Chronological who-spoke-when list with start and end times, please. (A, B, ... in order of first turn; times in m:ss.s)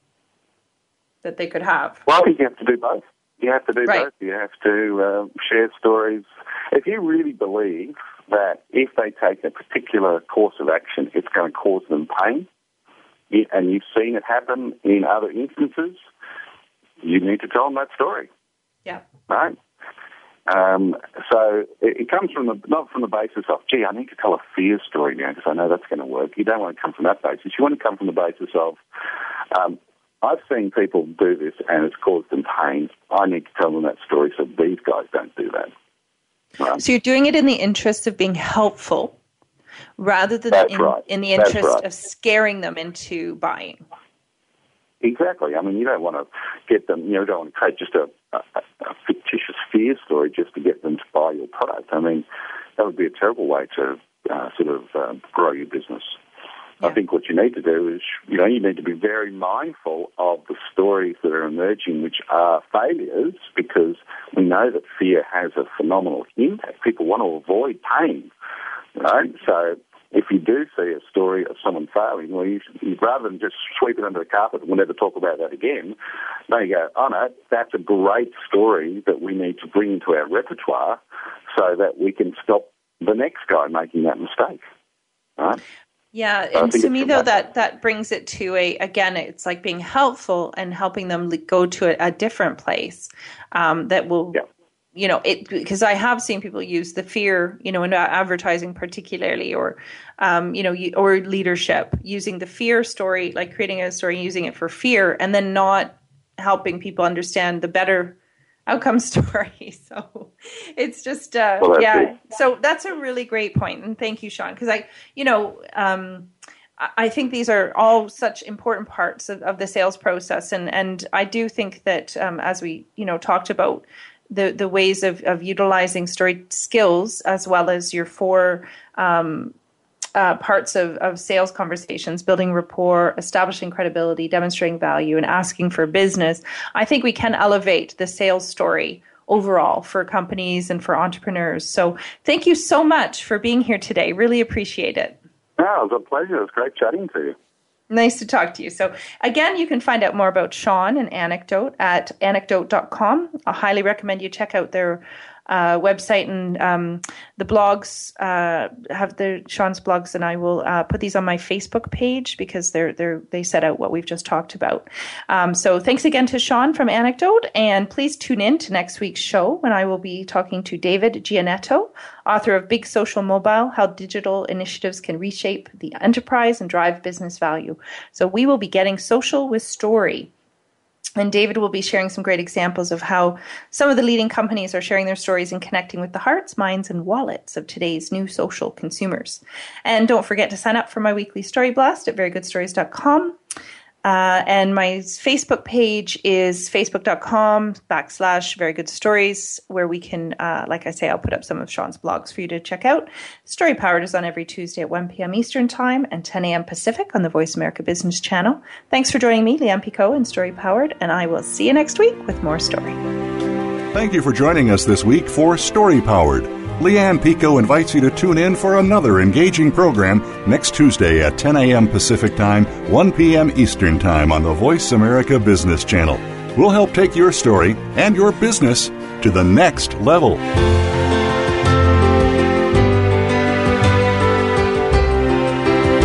0:01.2-0:02.0 A
0:02.1-0:12.5 B
0:13.3-0:16.0 B
0:17.0-0:18.3 B
0:19.3-0:19.6 B
0:20.5-0:28.8 B
0:29.5-0:35.7 B
0:36.8-0:39.2 A
0:40.0-0:43.8 A
0:40.5-0:41.8 B
0:45.0-0:52.2 B
0:52.8-0:56.2 B
0:56.8-1:08.3 B
1:09.0-1:16.0 B
1:16.5-1:21.0 B
1:21.5-1:24.6 B
1:26.1-1:34.4 A
1:26.6-1:27.3 B
1:35.0-2:09.6 A
1:51.6-1:52.1 B
2:10.2-2:25.2 A
2:25.6-2:27.4 B
2:27.9-3:00.3 A
3:01.2-3:13.4 A
3:14.0-3:33.0 A
3:33.9-3:50.4 C